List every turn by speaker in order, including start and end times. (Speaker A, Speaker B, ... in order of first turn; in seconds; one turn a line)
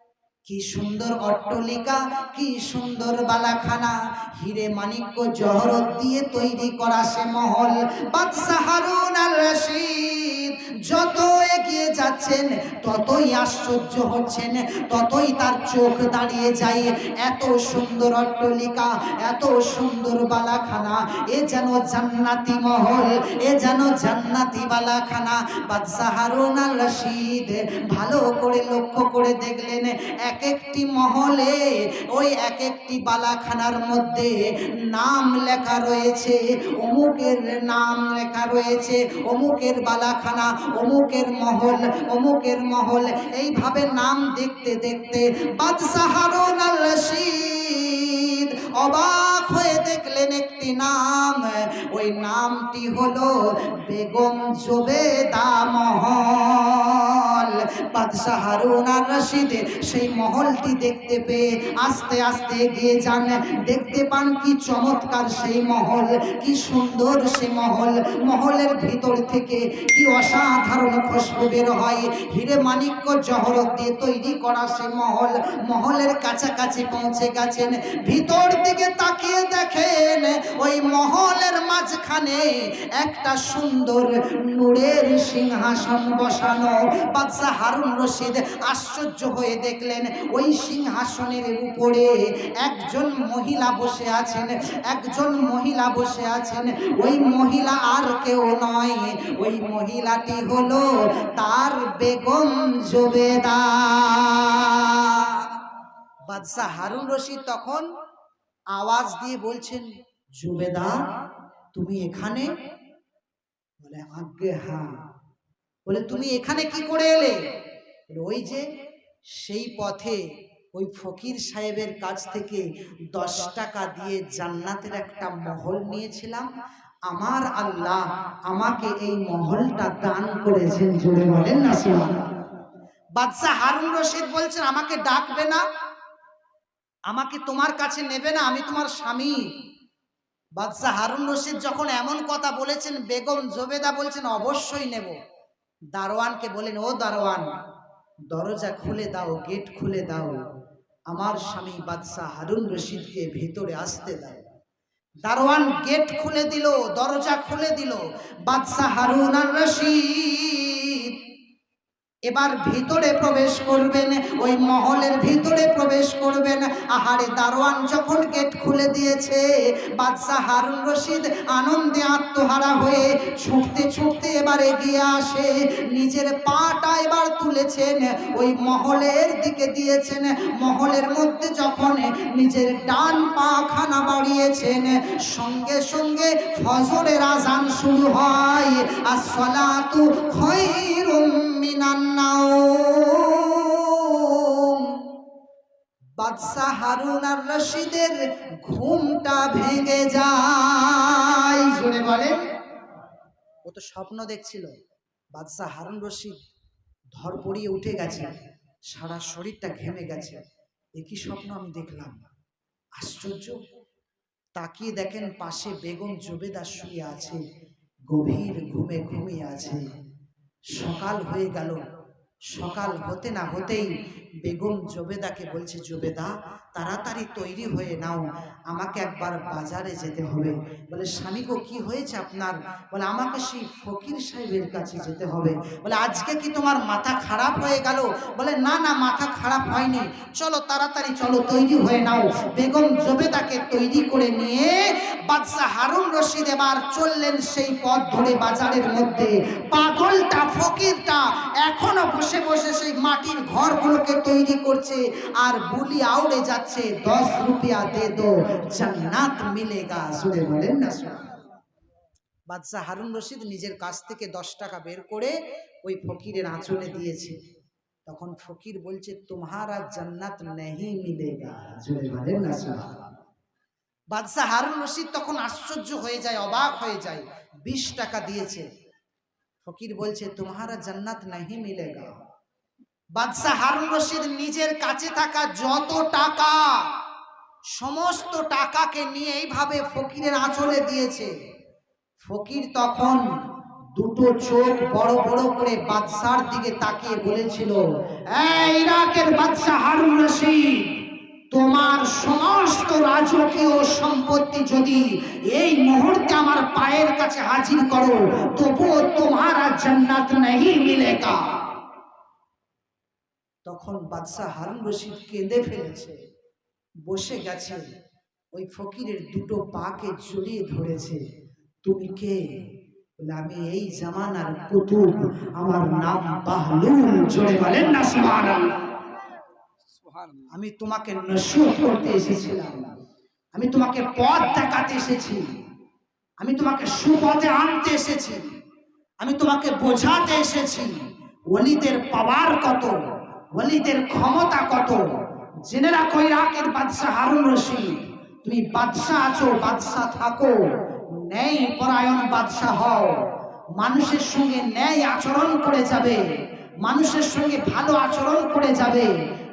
Speaker A: 0.5-105.6
Speaker A: 106.3-107.9
Speaker A: 108.8-109.9
Speaker A: 110.4-111.0
Speaker A: 111.7-112.5
Speaker A: 113.8-114.9
Speaker A: 115.9-117.4
Speaker A: 118.1-118.7
Speaker A: 119.3-120.2
Speaker A: 120.7-126.5
Speaker A: 127.1-132.3
Speaker A: 133.2-135.6
Speaker A: 137.1-139.4
Speaker A: 140.6-145.2
Speaker A: 145.9-147.5
Speaker A: 148.3-150.4
Speaker A: 151.1-154.4
Speaker A: 155.2-161.2
Speaker A: 162.3-195.1
Speaker A: 196.2-202.4
Speaker A: 203.7-204.7
Speaker A: 205.3-206.4
Speaker A: 207.2-208.3
Speaker A: 208.9-210.4
Speaker A: 211.0-212.3
Speaker A: 213.0-213.6
Speaker A: 214.6-217.4
Speaker A: 218.1-219.8
Speaker A: 220.8-221.8
Speaker A: 222.5-223.9
Speaker A: 224.4-261.2
Speaker A: 262.5-265.3
Speaker A: 265.8-267.4
Speaker A: 268.1-273.0
Speaker A: 274.1-278.6
Speaker A: 279.6-282.2
Speaker A: 283.2-286.8
Speaker A: 287.8-291.3
Speaker A: 292.2-293.2
Speaker A: 294.0-297.8
Speaker A: 298.3-301.0
Speaker A: 301.5-311.4
Speaker A: 313.7-316.1
Speaker A: 317.1-317.8
Speaker A: 318.6-321.2
Speaker A: 321.9-322.4
Speaker A: 323.3-328.8
Speaker A: 330.5-332.9
Speaker A: 333.6-335.5
Speaker A: 336.4-338.4
Speaker A: 339.2-340.9
Speaker A: 341.5-343.0
Speaker A: 343.6-345.0
Speaker A: 345.7-350.6
Speaker A: 351.1-353.2
Speaker A: 353.8-356.2
Speaker A: 356.8-359.1